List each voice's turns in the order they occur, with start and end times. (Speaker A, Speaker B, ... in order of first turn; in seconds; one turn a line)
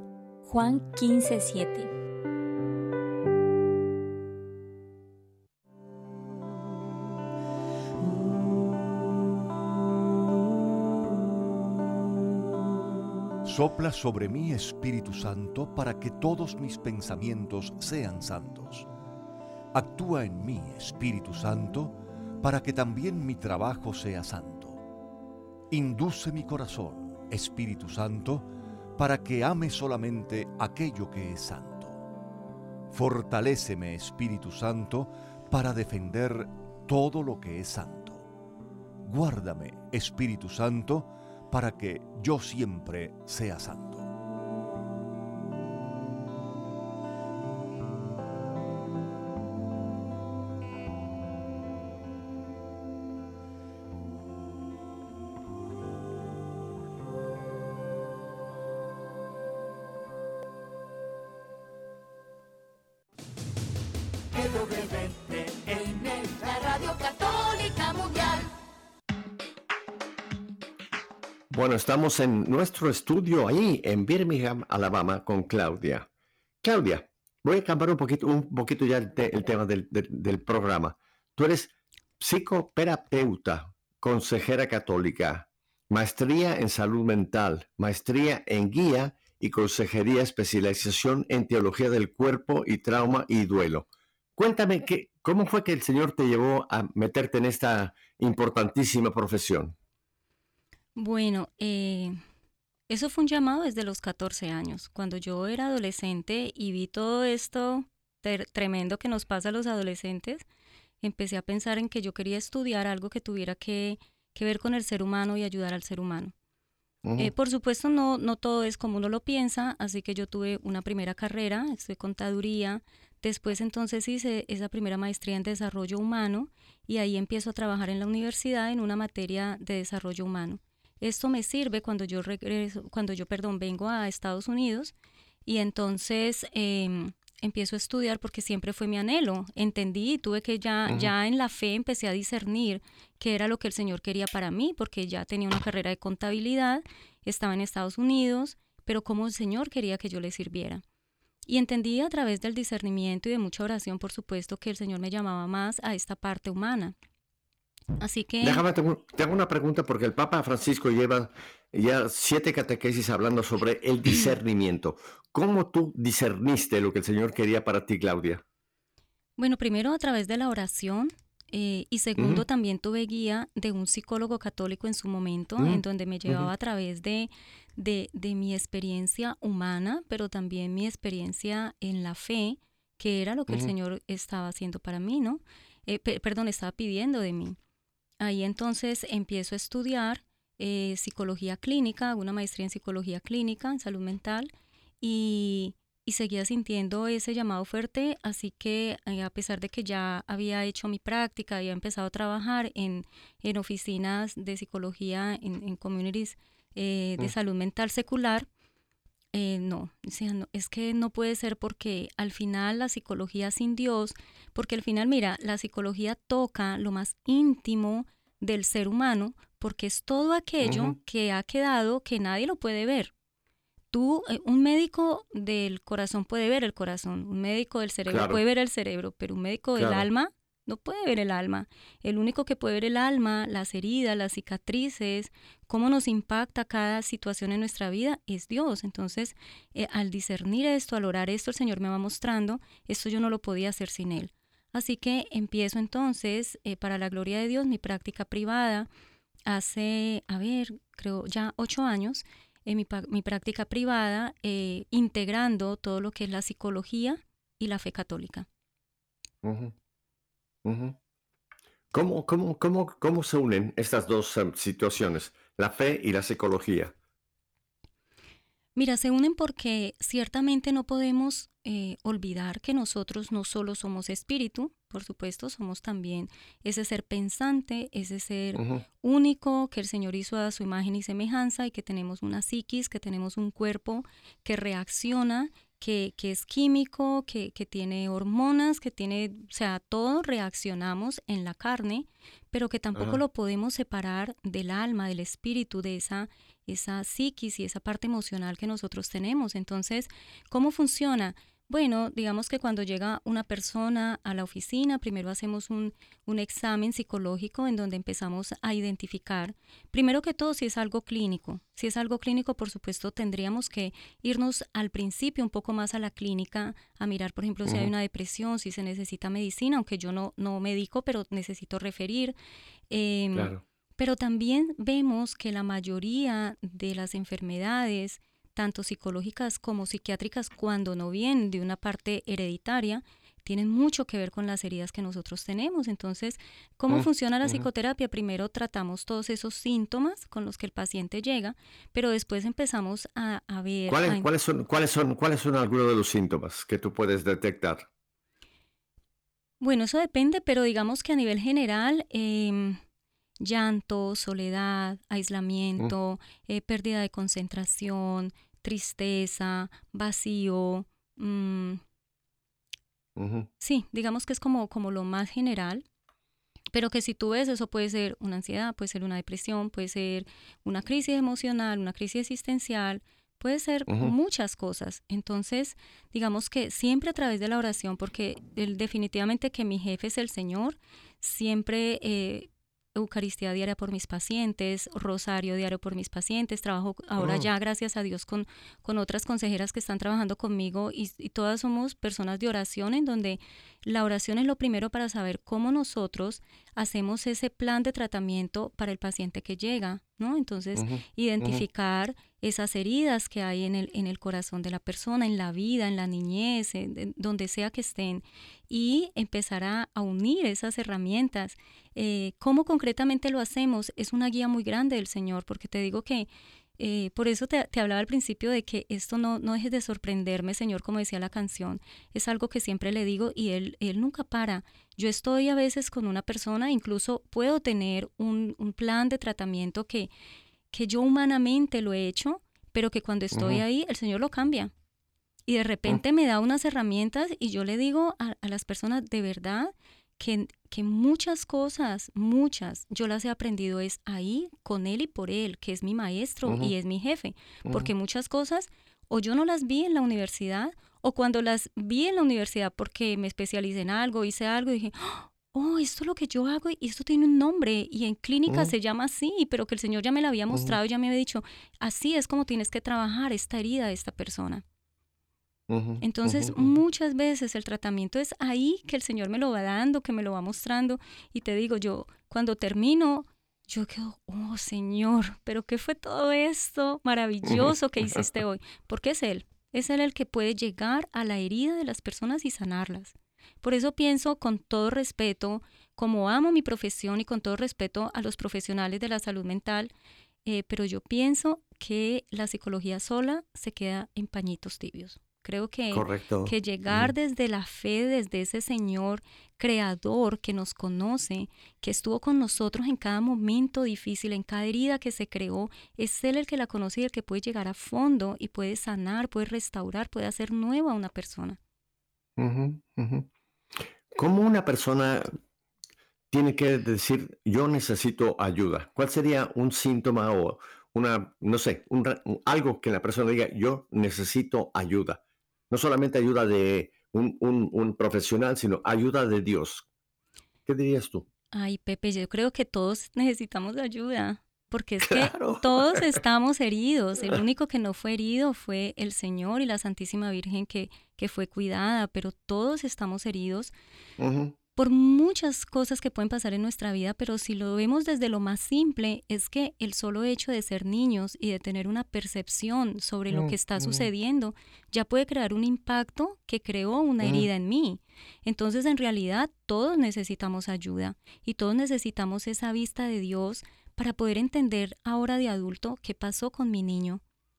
Speaker A: 0.4-1.9
Speaker B: 13.4-18.9
Speaker B: 19.7-24.8
Speaker B: 25.7-32.0
Speaker B: 32.9-38.2
Speaker B: 39.0-44.1
Speaker A: 64.3-68.5
Speaker C: 71.5-76.1
Speaker C: 76.6-99.7
Speaker D: 101.0-102.2
Speaker D: 102.9-110.4
Speaker D: 111.0-116.3
Speaker C: 117.0-117.3
Speaker D: 117.2-134.9
Speaker D: 135.4-150.8
Speaker D: 151.5-156.9
Speaker D: 158.0-158.6
Speaker C: 158.4-168.4
Speaker D: 169.4-187.6
Speaker C: 172.2-172.4
Speaker C: 175.6-176.5
Speaker D: 188.2-208.5
Speaker D: 209.3-223.1
Speaker C: 220.6-220.9
Speaker D: 223.9-248.9
Speaker C: 228.1-228.4
Speaker C: 229.8-230.1
Speaker D: 249.4-258.5
Speaker C: 259.4-259.7
Speaker C: 260.6-261.0
Speaker C: 261.9-266.9
Speaker D: 268.8-322.4
Speaker C: 278.6-278.8
Speaker C: 292.9-293.2
Speaker C: 317.6-317.9
Speaker D: 322.9-344.3
Speaker C: 323.3-323.6
Speaker C: 336.9-337.6
Speaker C: 343.9-347.9
Speaker D: 349.6-352.8
Speaker D: 353.4-361.8
Speaker C: 363.1-363.5
Speaker D: 363.6-365.8
Speaker D: 366.7-430.1
Speaker C: 373.9-374.1
Speaker C: 387.2-387.5
Speaker C: 400.8-401.6
Speaker D: 430.7-434.7
Speaker C: 433.3-433.6
Speaker D: 435.5-464.6
Speaker C: 446.4-446.7
Speaker C: 447.6-447.9
Speaker C: 458.5-458.7
Speaker C: 460.5-460.8
Speaker C: 465.7-466.7
Speaker D: 466.0-489.9
Speaker C: 477.4-478.2
Speaker D: 490.4-511.6
Speaker C: 495.9-497.1
Speaker C: 512.4-513.3
Speaker C: 514.1-515.4
Speaker C: 516.3-529.9
Speaker C: 530.7-531.2
Speaker D: 531.5-543.7
Speaker C: 535.1-536.2
Speaker C: 544.2-544.5
Speaker D: 544.8-567.2
Speaker C: 553.3-554.1
Speaker C: 557.2-557.5